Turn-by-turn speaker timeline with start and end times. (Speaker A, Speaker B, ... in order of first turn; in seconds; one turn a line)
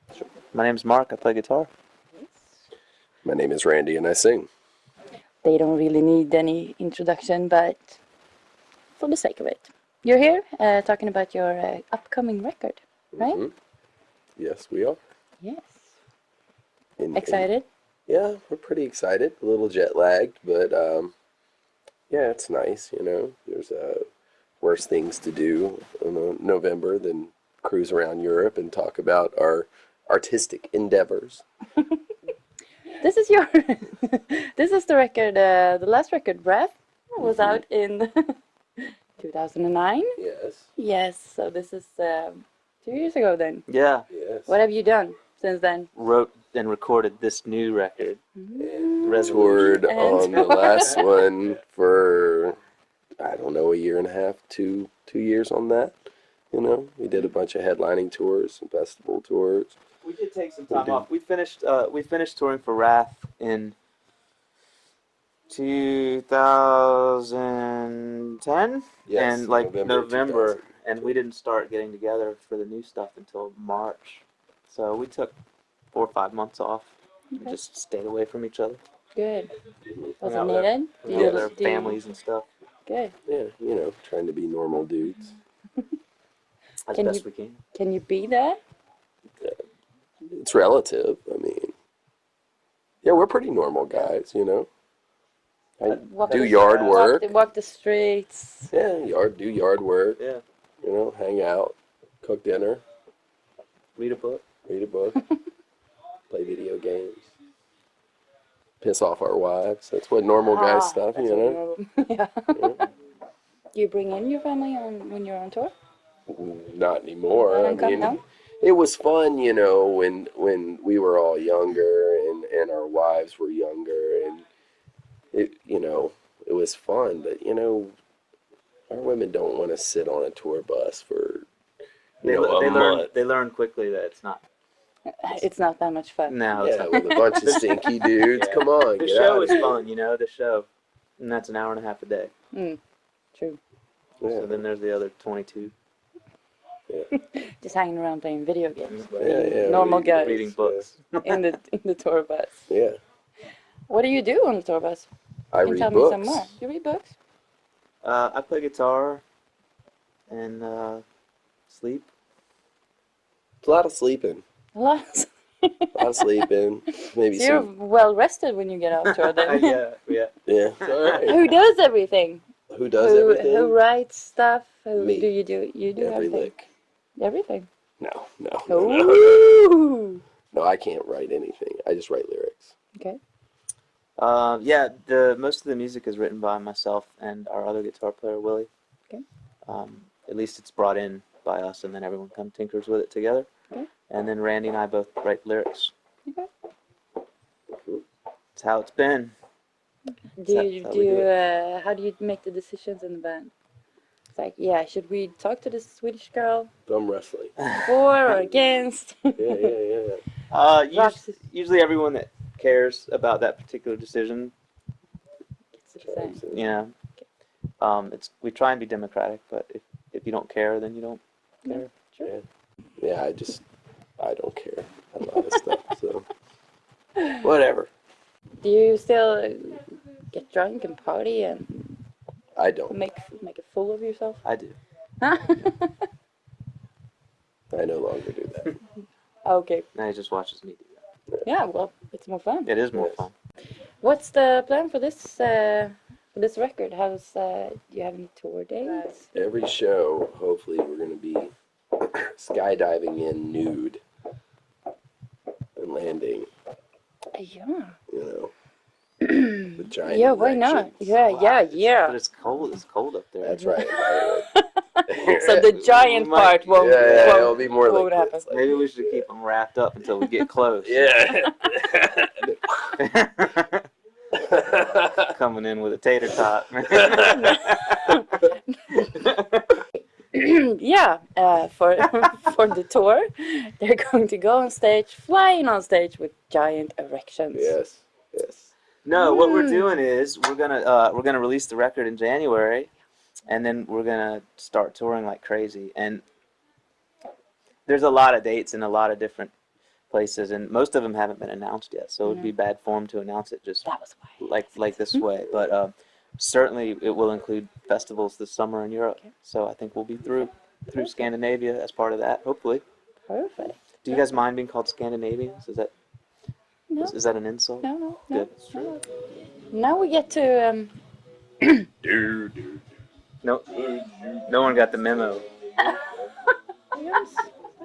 Speaker A: 0.2-1.7
Speaker B: 2.1-2.5
Speaker C: 3.2-4.5
Speaker B: 5.4-8.0
Speaker B: 9.0-13.4
Speaker C: 13.1-13.5
Speaker C: 14.4-15.0
Speaker B: 15.4-15.9
Speaker C: 17.0-17.5
Speaker B: 17.1-17.7
Speaker C: 18.1-21.1
Speaker C: 22.1-24.0
Speaker C: 24.6-31.4
Speaker B: 33.0-40.2
Speaker C: 37.2-37.6
Speaker C: 40.2-40.7
Speaker B: 40.8-43.6
Speaker A: 43.7-44.0
Speaker C: 44.1-44.6
Speaker B: 44.5-45.9
Speaker A: 45.9-48.2
Speaker B: 48.4-51.1
Speaker C: 48.6-52.6
Speaker A: 49.0-51.0
Speaker C: 53.2-56.0
Speaker C: 56.5-59.8
Speaker A: 60.0-63.8
Speaker C: 60.7-61.1
Speaker A: 65.5-75.4
Speaker C: 69.1-71.1
Speaker A: 75.9-78.8
Speaker B: 77.3-77.6
Speaker B: 79.2-79.5
Speaker C: 79.9-80.2
Speaker B: 80.2-82.0
Speaker A: 80.2-82.5
Speaker C: 81.1-81.5
Speaker B: 82.8-83.1
Speaker C: 83.2-85.3
Speaker A: 86.9-87.6
Speaker B: 86.9-88.6
Speaker C: 90.2-91.7
Speaker C: 93.0-94.7
Speaker C: 95.8-97.2
Speaker A: 95.9-97.1
Speaker B: 96.1-98.7
Speaker C: 98.7-100.2
Speaker C: 100.8-102.8
Speaker A: 104.0-104.4
Speaker C: 104.7-105.2
Speaker C: 106.3-107.3
Speaker C: 108.8-111.6
Speaker B: 110.5-112.8
Speaker C: 112.5-112.8
Speaker B: 113.7-115.7
Speaker C: 116.3-124.5
Speaker B: 117.3-118.2
Speaker C: 125.3-128.0
Speaker C: 128.9-131.5
Speaker C: 132.2-133.1
Speaker A: 132.2-134.4
Speaker B: 135.2-137.8
Speaker A: 136.3-137.6
Speaker C: 136.5-139.7
Speaker A: 138.2-140.7
Speaker A: 141.2-142.3
Speaker B: 142.5-142.8
Speaker C: 144.2-144.6
Speaker A: 144.3-145.7
Speaker B: 147.1-150.4
Speaker A: 148.9-151.4
Speaker C: 149.2-150.9
Speaker B: 151.2-152.5
Speaker C: 152.7-153.0
Speaker B: 153.9-155.1
Speaker C: 155.5-156.6
Speaker B: 155.6-157.1
Speaker A: 158.0-159.2
Speaker A: 160.3-161.0
Speaker A: 161.7-162.1
Speaker C: 163.6-164.4
Speaker B: 164.7-166.4
Speaker C: 165.9-167.7
Speaker B: 167.0-169.8
Speaker A: 169.1-171.4
Speaker C: 170.4-171.4
Speaker B: 171.2-172.4
Speaker C: 172.7-173.8
Speaker B: 173.0-176.5
Speaker C: 174.9-175.3
Speaker C: 176.0-176.7
Speaker B: 177.2-177.7
Speaker C: 178.0-179.6
Speaker B: 178.7-180.2
Speaker C: 180.5-182.7
Speaker A: 184.2-188.7
Speaker A: 189.6-193.5
Speaker A: 194.1-195.9
Speaker C: 197.7-198.0
Speaker A: 198.6-199.3
Speaker B: 200.4-203.5
Speaker A: 200.5-201.3
Speaker B: 204.3-206.7
Speaker C: 206.9-207.5
Speaker A: 207.6-207.9
Speaker B: 207.8-209.7
Speaker C: 208.3-208.6
Speaker C: 209.3-210.2
Speaker A: 210.5-214.5
Speaker B: 210.9-211.4
Speaker B: 215.8-216.4
Speaker C: 216.0-216.8
Speaker A: 216.5-216.9
Speaker A: 217.8-221.9
Speaker B: 221.7-222.3
Speaker C: 223.0-223.6
Speaker C: 224.2-226.3
Speaker C: 227.3-227.9
Speaker B: 228.6-232.0
Speaker C: 232.6-233.0
Speaker B: 232.9-234.4
Speaker A: 234.4-234.8
Speaker B: 235.2-236.0
Speaker C: 237.7-238.8
Speaker B: 239.4-239.9
Speaker A: 239.9-241.0
Speaker B: 241.4-242.7
Speaker A: 242.7-243.3
Speaker C: 242.9-243.2
Speaker B: 244.0-249.3
Speaker C: 249.3-254.0
Speaker C: 255.8-256.5
Speaker B: 257.3-257.9
Speaker C: 258.1-258.5
Speaker B: 259.2-262.2
Speaker C: 259.8-261.1
Speaker A: 261.2-263.6
Speaker C: 263.4-264.5
Speaker B: 263.6-268.5
Speaker C: 265.1-265.6
Speaker A: 265.4-267.6
Speaker C: 266.8-269.1
Speaker A: 268.5-271.1
Speaker C: 270.8-272.9
Speaker A: 273.0-273.9
Speaker C: 274.3-275.3
Speaker A: 275.3-278.2
Speaker C: 276.9-277.2
Speaker B: 277.3-279.1
Speaker A: 278.9-279.8
Speaker B: 280.3-287.8
Speaker C: 287.5-288.7
Speaker A: 289.0-292.9
Speaker B: 289.1-289.9
Speaker A: 293.5-296.2
Speaker A: 297.9-299.5
Speaker A: 300.1-303.9
Speaker B: 302.2-302.5
Speaker B: 303.9-305.2
Speaker A: 304.4-312.8
Speaker B: 310.9-311.3
Speaker B: 313.3-313.8
Speaker A: 314.0-315.9
Speaker B: 316.9-317.1
Speaker A: 317.0-318.9
Speaker B: 317.8-319.0
Speaker B: 319.7-320.9
Speaker B: 321.6-321.9
Speaker C: 322.0-322.8
Speaker A: 323.4-325.4
Speaker B: 326.9-327.5